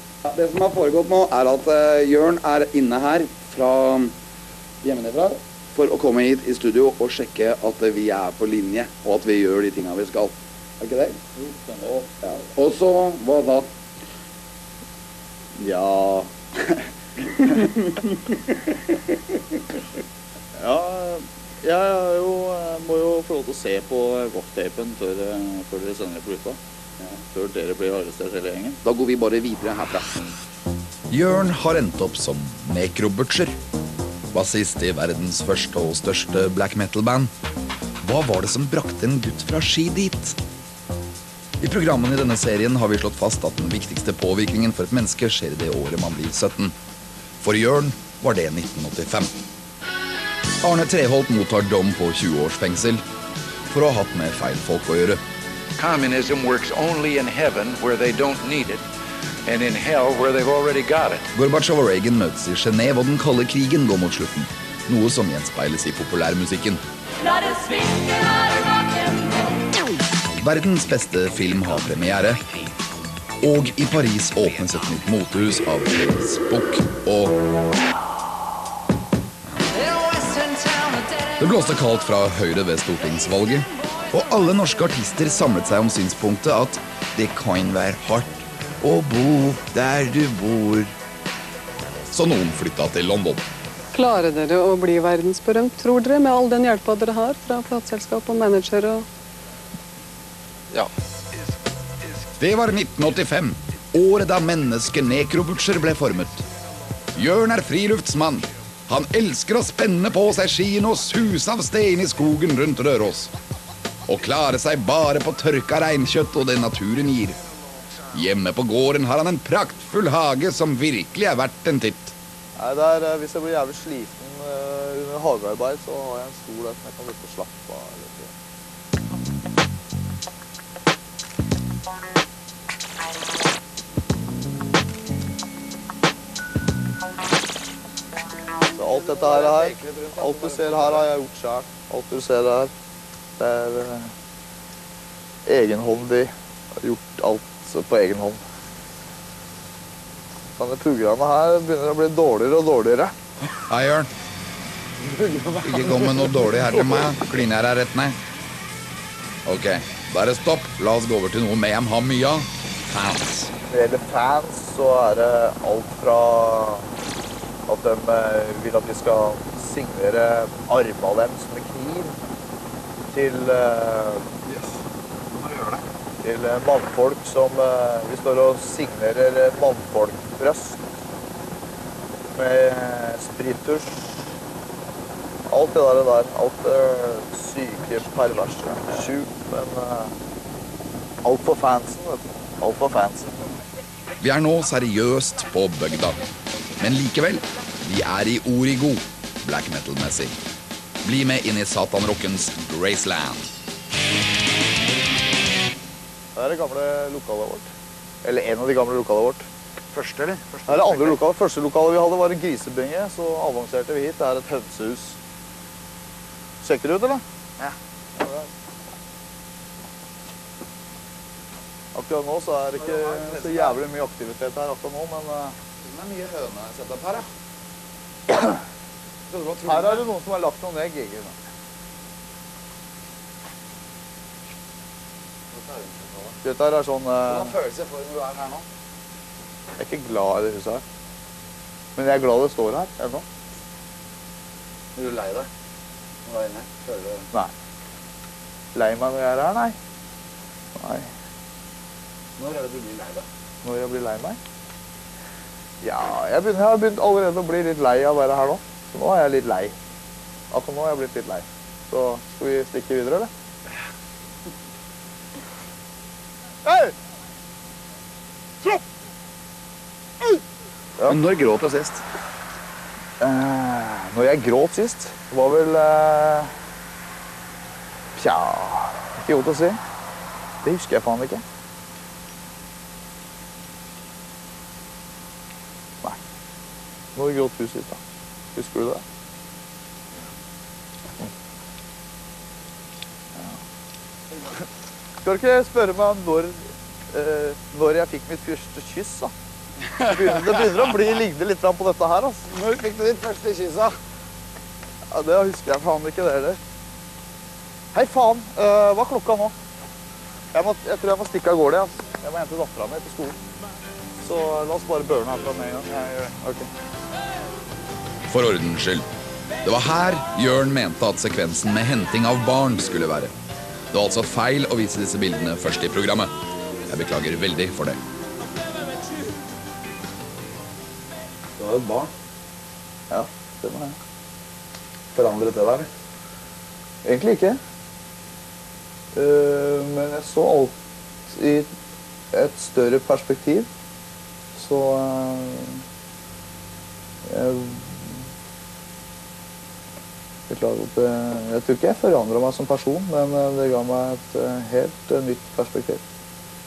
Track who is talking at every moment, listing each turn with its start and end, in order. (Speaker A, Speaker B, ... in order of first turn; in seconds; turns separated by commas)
Speaker A: 0.2-4.1, Speaker A: 4.8-11.2, Speaker A: 11.8-13.7, Speaker B: 15.6-16.3, Speaker B: 20.6-26.6, Speaker B: 27.2-28.8, Speaker C: 28.8-30.1, Speaker C: 31.1-33.5, Speaker C: 34.3-37.3, Speaker C: 38.0-40.4, Speaker C: 41.6-46.7, Speaker C: 47.4-49.3, Speaker C: 50.6-53.0, Speaker C: 53.7-55.2, Speaker D: 55.8-58.8, Speaker D: 59.5-61.3, Speaker C: 61.3-66.8, Speaker C: 70.4-72.4, Speaker C: 73.4-77.4, Speaker C: 81.3-90.9, Speaker C: 92.1-93.5, Speaker E: 93.9-99.0, Speaker C: 102.4-106.4, Speaker C: 107.1-113.3, Speaker C: 114.1-117.4, Speaker C: 118.1-122.1, Speaker B: 122.6-128.3, Speaker B: 138.7-142.7, Speaker A: 138.8-141.1, Speaker B: 143.4-144.1, Speaker B: 145.4-148.4, Speaker B: 150.6-153.1, Speaker C: 153.6-154.1, Speaker A: 155.0-156.3, Speaker C: 155.6-158.1, Speaker C: 159.4-163.5, Speaker B: 163.7-166.9, Speaker B: 167.7-172.2, Speaker B: 173.1-174.2, Speaker A: 174.4-174.7, Speaker A: 175.3-175.8, Speaker B: 176.2-180.8, Speaker B: 182.3-183.9, Speaker B: 185.5-190.1, Speaker B: 191.2-193.5, Speaker C: 194.2-196.2, Speaker C: 196.8-200.3, Speaker C: 201.0-203.5, Speaker B: 206.3-207.7, Speaker B: 208.2-209.4, Speaker A: 209.9-211.2, Speaker B: 210.7-215.2, Speaker B: 216.6-217.2, Speaker B: 218.2-218.4, Speaker B: 221.9-225.6, Speaker A: 222.8-223.8, Speaker A: 225.8-227.3, Speaker B: 228.3-228.6, Speaker A: 229.3-230.0, Speaker B: 229.6-231.3, Speaker A: 235.5-236.3, Speaker B: 236.4-237.6, Speaker A: 237.3-238.6, Speaker B: 239.8-240.8, Speaker B: 241.9-243.2, Speaker A: 244.9-245.5, Speaker A: 246.2-247.3, Speaker B: 248.7-249.8, Speaker B: 250.8-251.1, Speaker A: 252.4-253.2, Speaker B: 253.6-254.4, Speaker B: 255.8-259.7, Speaker B: 260.5-263.3, Speaker B: 266.6-266.9, Speaker A: 271.0-272.0, Speaker B: 273.2-276.5, Speaker B: 278.1-279.8, Speaker B: 280.6-281.4, Speaker B: 287.1-288.0, Speaker B: 288.5-289.0, Speaker B: 293.3-293.6, Speaker B: 295.2-299.3, Speaker A: 300.0-300.6, Speaker B: 300.1-302.5, Speaker A: 302.5-303.9, Speaker B: 305.1-306.6, Speaker B: 307.9-309.5, Speaker B: 310.5-313.4, Speaker B: 314.2-316.7, Speaker C: 318.3-319.1, Speaker C: 319.6-323.3, Speaker C: 323.9-326.3, Speaker C: 326.9-328.0, Speaker A: 331.6-332.1, Speaker B: 333.1-334.0, Speaker A: 335.1-335.9, Speaker B: 337.0-337.6, Speaker B: 339.1-340.7, Speaker B: 341.3-341.7, Speaker B: 342.3-343.7, Speaker B: 344.5-345.8, Speaker B: 347.2-348.2, Speaker B: 350.5-356.0